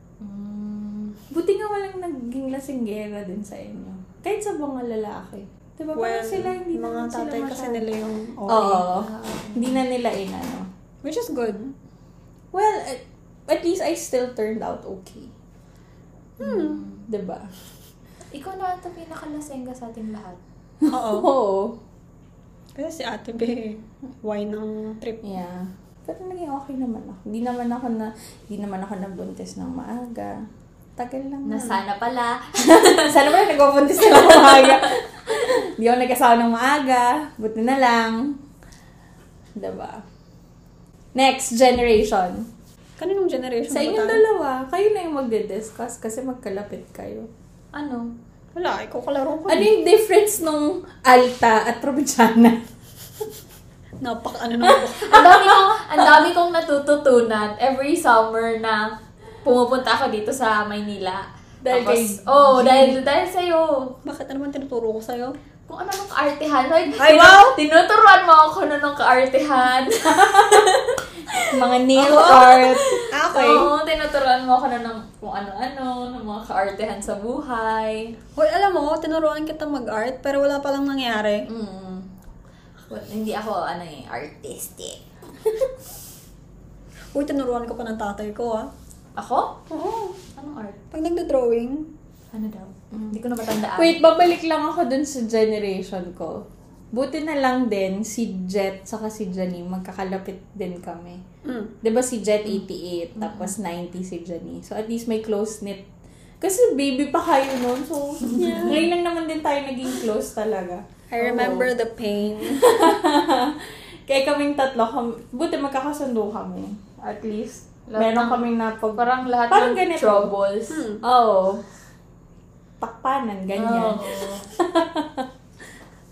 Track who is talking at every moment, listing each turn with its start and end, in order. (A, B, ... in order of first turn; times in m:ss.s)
0:00.2-0:01.2 A
0:01.3-0:07.8 B
0:05.9-0:08.9 C
0:08.5-0:10.7 B
0:08.9-0:09.8 A
0:11.0-0:11.7 C
0:12.5-0:15.3 B
0:16.4-0:16.8 C
0:16.4-0:17.0 A
0:17.1-0:17.5 B
0:18.3-0:20.4 A
0:20.8-0:21.8 B
0:20.9-0:21.3 C
0:22.8-0:25.2 C
0:25.2-0:30.4 B
0:31.0-0:31.7 B
0:31.4-0:33.2 A
0:32.7-0:38.4 B
0:34.0-0:35.5 A
0:39.6-0:40.0 B
0:41.1-0:42.5 B
0:43.0-0:44.2 C
0:43.7-0:47.3 B
0:47.7-0:48.1 A
0:48.5-0:49.7 C
0:49.5-0:52.6 B
0:54.0-0:55.2 C
0:54.6-0:56.2 B
0:55.0-0:58.9 A
0:59.4-1:03.9 A
1:01.6-1:03.0 B
1:04.0-1:05.3 C
1:05.7-1:18.1 A
1:07.0-1:07.6 C
1:10.1-1:10.6 B
1:11.4-1:13.6 B
1:12.0-1:12.5 C
1:13.1-1:13.7 C
1:18.4-1:21.5 C
1:21.5-1:22.1 A
1:22.9-1:25.0 A
1:27.1-1:28.7 C
1:29.2-1:29.6 A
1:29.7-1:30.2 C
1:30.4-1:30.8 A
1:30.9-1:31.9 C
1:32.3-1:34.0 A
1:32.9-1:33.2 B
1:33.7-1:41.2 B
1:41.4-1:41.7 C
1:41.8-1:45.9 B
1:43.2-1:43.5 A
1:46.4-1:51.6 B
1:48.2-1:48.7 A
1:48.4-1:48.8 C
1:51.1-1:52.7 C
1:51.2-1:51.6 A
1:52.6-2:00.3 B
1:57.9-1:58.4 A
1:59.0-2:00.8 A
2:00.7-2:01.0 C
2:01.0-2:01.6 B
2:02.8-2:05.3 B
2:03.6-2:04.4 A